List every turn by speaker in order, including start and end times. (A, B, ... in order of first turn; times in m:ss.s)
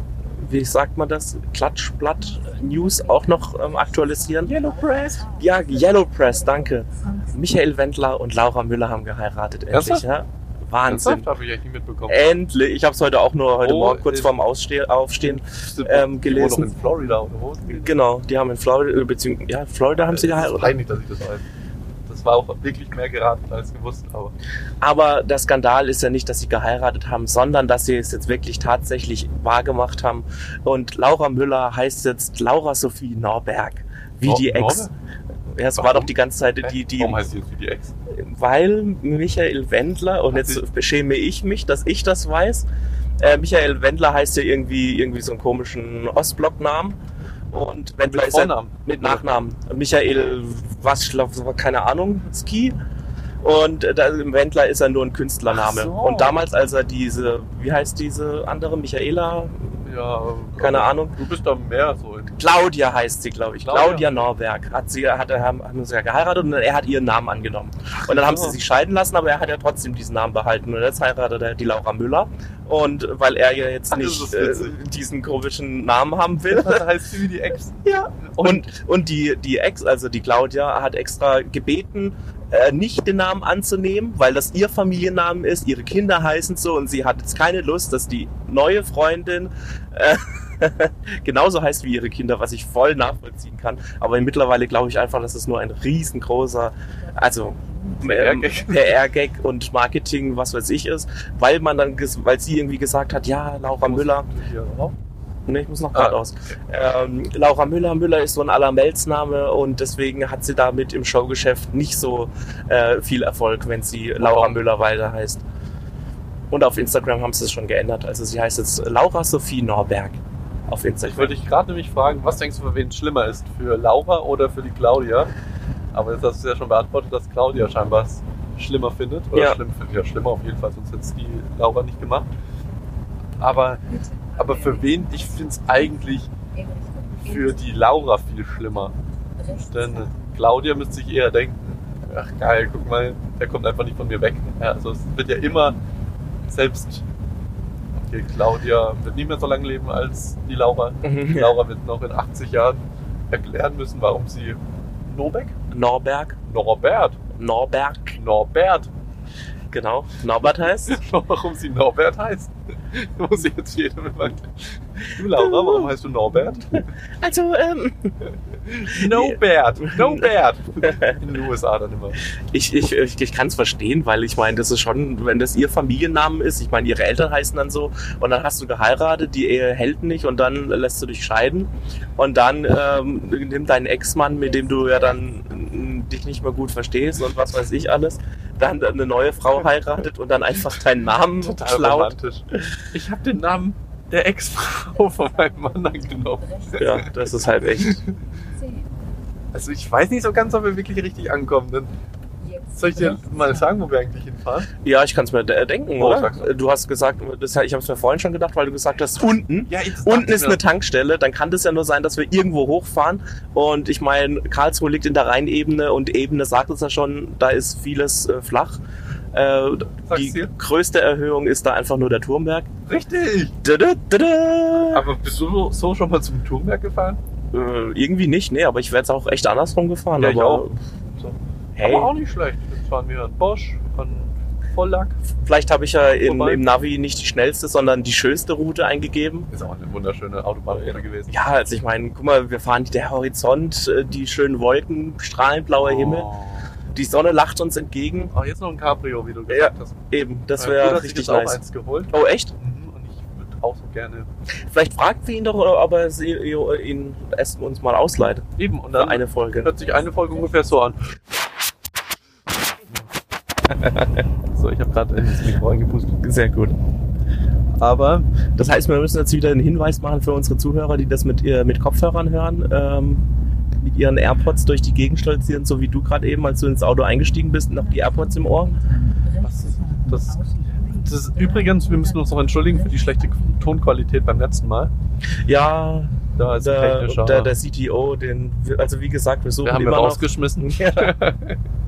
0:00.4-0:04.5 A
0:02.2-0:07.5 B
0:04.4-0:05.2 C
0:05.4-0:11.3 A
0:09.7-0:10.0 C
0:10.8-0:12.3 C
0:12.1-0:16.7 A
0:13.6-0:14.3 C
0:15.2-0:18.0 C
0:17.7-0:20.8 A
0:20.0-0:21.4 C
0:22.1-0:24.3 C
0:24.8-0:34.9 A
0:34.2-0:34.9 C
0:35.5-0:37.2 A
0:35.8-0:37.9 C
0:38.1-0:42.6 A
0:40.3-0:40.6 C
0:43.2-0:47.0 A
0:47.5-0:52.8 A
0:48.1-0:49.2 C
0:53.4-0:59.8 A
0:55.5-0:56.4 C
0:59.8-1:02.4 C
1:00.6-1:01.1 A
1:02.4-1:16.8 A
1:03.6-1:04.2 C
1:08.0-1:08.6 C
1:13.9-1:14.8 C
1:16.5-1:18.7 C
1:17.8-1:44.3 A
1:37.1-1:38.0 B
1:38.0-1:39.0 C
1:43.8-1:45.0 C
1:45.4-1:55.4 A
1:45.9-1:46.2 C
1:54.2-1:54.6 C
1:56.5-2:01.3 A
2:01.0-2:05.3 C
2:05.9-2:12.3 C
2:09.3-2:09.6 A
2:13.4-2:13.8 C
2:13.9-2:18.0 B
2:14.4-2:16.3 C
2:17.2-2:18.9 C
2:19.3-2:20.4 B
2:19.7-2:25.8 C
2:26.5-2:27.0 C
2:28.0-2:35.5 C
2:31.0-2:31.5 A
2:35.7-2:36.4 A
2:36.5-2:37.2 C
2:37.3-2:38.2 A
2:38.2-2:38.9 C
2:39.7-2:41.0 A
2:40.9-2:46.9 C
2:45.3-2:45.9 A
2:46.7-2:50.2 A
2:48.7-2:52.2 C
2:50.8-2:51.2 A
2:52.3-3:12.2 A
3:04.4-3:05.2 B
3:11.4-3:17.1 C
3:14.9-3:17.4 B
3:16.8-3:18.0 A
3:17.7-3:18.1 C
3:18.3-3:19.1 B
3:19.5-3:21.9 C
3:22.4-3:23.9 B
3:22.8-3:24.7 C
3:24.8-3:38.8 A
3:26.0-3:26.6 C
3:29.7-3:30.6 C
3:39.3-3:42.7 A
3:40.0-3:40.5 C
3:42.8-3:43.6 C
3:43.6-3:45.0 A
3:44.9-3:47.2 C
3:47.5-3:50.7 A
3:50.2-3:55.2 C
3:51.8-3:52.1 A
3:55.4-3:59.5 A
3:56.1-3:56.6 C
3:59.5-4:01.4 C
4:00.7-4:06.3 A
4:05.8-4:06.7 C
4:06.9-4:08.3 A
4:08.3-4:14.3 C
4:09.5-4:12.5 A
4:14.7-4:19.8 A
4:18.6-4:21.1 C
4:19.7-4:20.6 B
4:24.5-4:26.2 C
4:26.2-4:26.8 A
4:27.8-4:28.3 C
4:28.6-4:33.2 A
4:33.8-4:38.7 A
4:37.7-4:43.8 B
4:39.4-4:40.4 C
4:41.0-4:44.9 C
4:45.4-4:51.2 A
4:46.4-4:47.5 C
4:49.6-4:51.6 C